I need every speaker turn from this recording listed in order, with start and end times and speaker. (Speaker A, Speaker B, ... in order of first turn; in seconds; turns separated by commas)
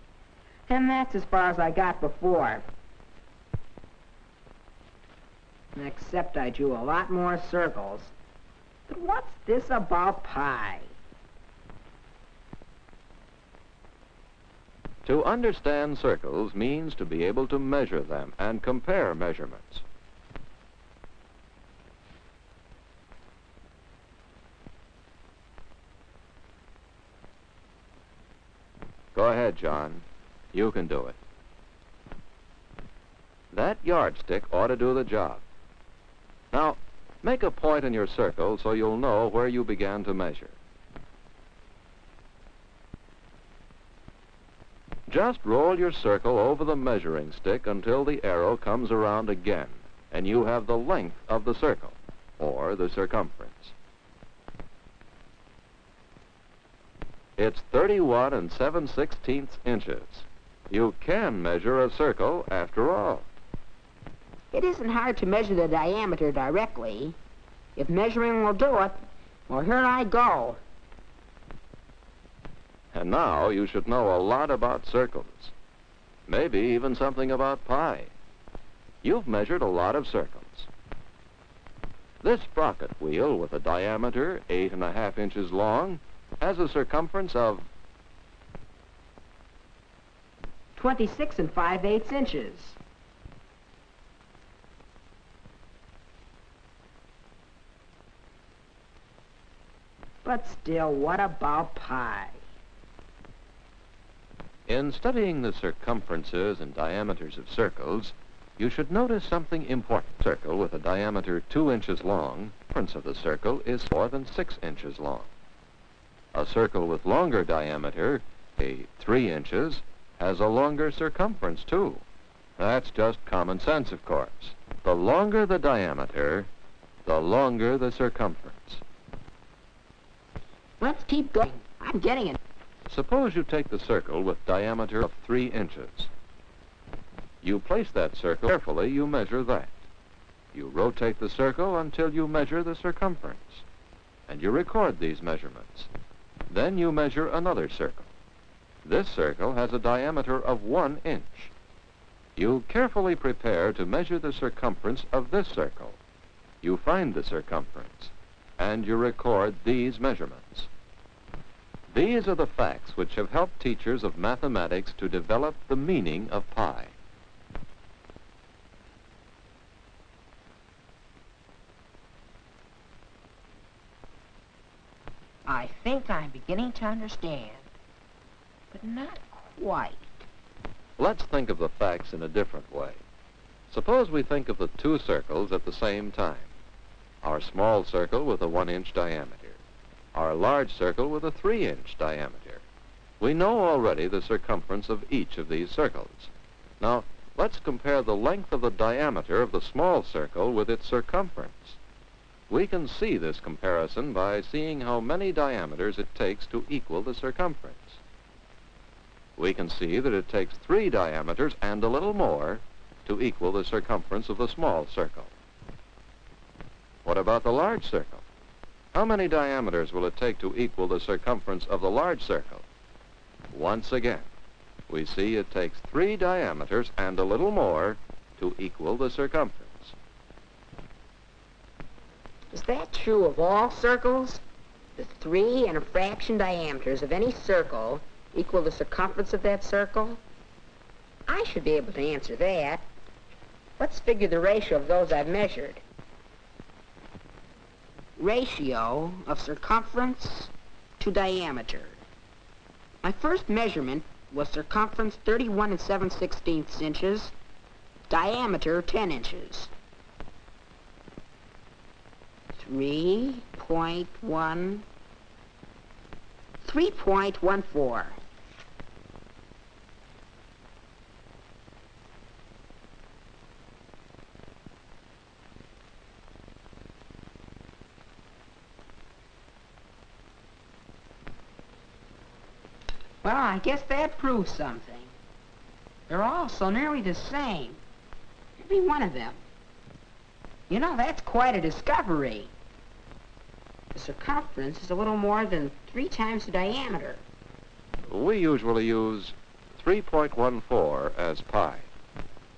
Speaker A: 0.7-2.6, Speaker A: 5.7-8.1, Speaker A: 8.9-10.9, Speaker B: 15.0-19.8, Speaker B: 29.1-31.2, Speaker B: 33.5-35.4, Speaker B: 36.5-40.6, Speaker B: 45.1-53.7, Speaker B: 57.4-63.3, Speaker A: 64.5-67.2, Speaker A: 67.8-70.6, Speaker B: 72.9-75.5, Speaker B: 76.3-78.1, Speaker B: 79.0-80.7, Speaker B: 82.2-87.7, Speaker A: 90.7-92.8, Speaker A: 100.2-102.4, Speaker B: 104.7-115.3, Speaker B: 116.3-122.0, Speaker B: 122.6-126.5, Speaker B: 127.0-128.8, Speaker A: 130.8-132.4, Speaker B: 132.9-136.1, Speaker B: 137.4-139.8, Speaker B: 140.5-143.6, Speaker B: 144.3-145.9, Speaker B: 146.5-148.1, Speaker B: 148.8-151.5, Speaker B: 152.3-156.0, Speaker B: 156.6-160.7, Speaker B: 161.9-166.9, Speaker A: 175.4-177.7, Speaker A: 178.7-180.3, Speaker B: 181.0-183.0, Speaker B: 183.7-186.5, Speaker B: 187.2-189.6, Speaker B: 190.1-192.6, Speaker B: 193.2-201.8, Speaker B: 202.5-208.0, Speaker B: 209.3-215.3, Speaker B: 217.0-218.2, Speaker B: 218.9-222.6, Speaker B: 223.5-224.3, Speaker B: 224.9-229.9, Speaker A: 232.5-234.4, Speaker A: 234.9-240.2, Speaker A: 241.3-242.8, Speaker A: 243.8-245.8, Speaker A: 248.2-252.0, Speaker A: 253.0-257.3, Speaker A: 258.1-259.7, Speaker A: 262.5-264.8, Speaker A: 266.6-268.2, Speaker A: 283.2-285.1, Speaker A: 286.1-287.8, Speaker A: 288.6-289.4, Speaker A: 290.7-292.5, Speaker A: 293.9-297.2, Speaker B: 298.1-301.9